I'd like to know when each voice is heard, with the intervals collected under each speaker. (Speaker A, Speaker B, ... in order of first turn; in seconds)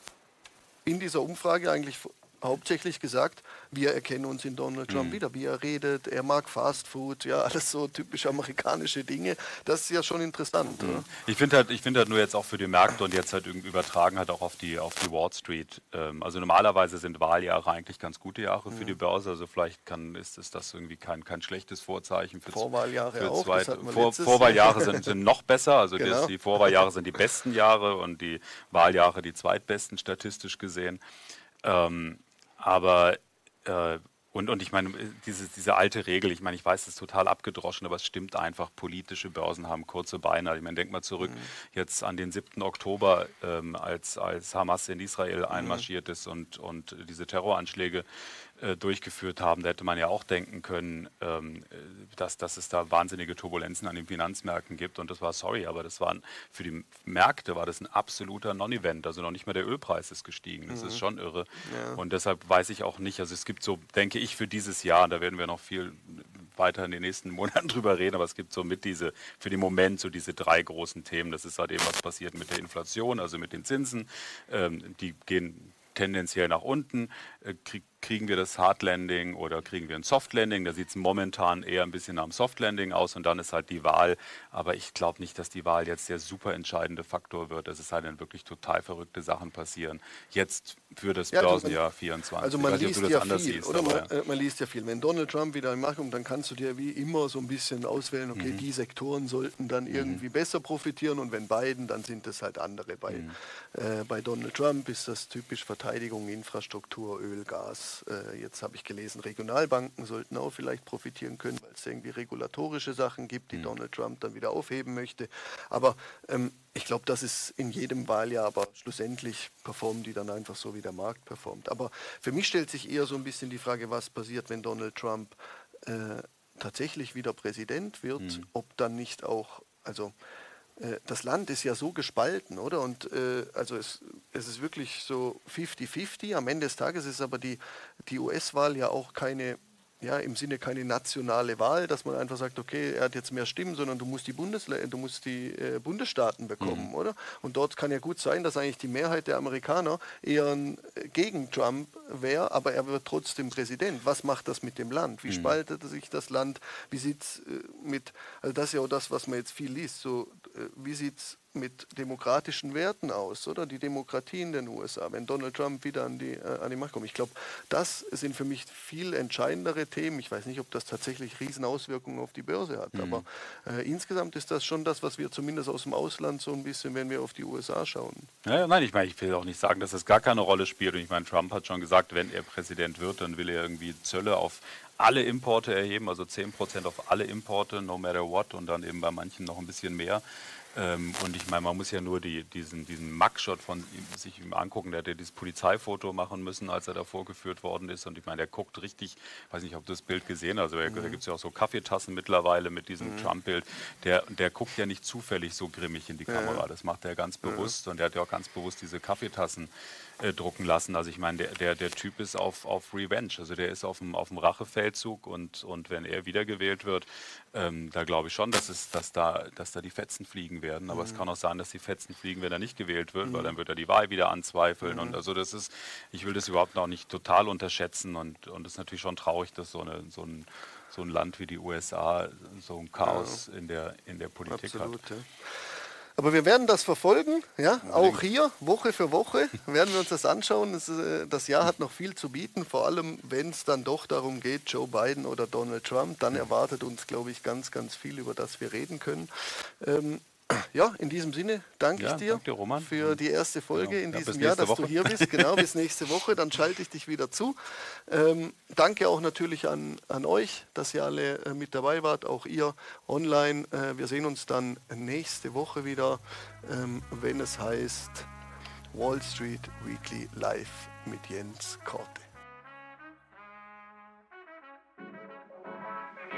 Speaker A: 0.8-11.1, 18.7-18.9, 22.5-25.1, 26.0-26.4, 41.2-41.5, 45.5-45.9, 60.7-61.0, 61.6-62.0, 91.3-91.8, 92.4-130.1, 130.8-178.3, 200.9-201.2, 203.0-203.3, 206.3-206.7, 207.4-207.7, 220.9-221.2, 223.2-223.5, 224.8-225.2, 233.0-233.4, 234.5-235.4, 236.2-268.3, 268.9-272.3
Speaker B: 4.9-5.2, 10.8-31.0, 31.6-48.0, 48.6-94.1, 98.3-98.6, 99.9-100.2, 103.1-103.4, 128.2-128.4, 146.6-146.9, 155.3-155.6, 172.9-173.2, 178.4-190.2, 190.7-209.7, 210.2-235.0, 237.8-238.2, 252.0-253.2, 253.7-255.6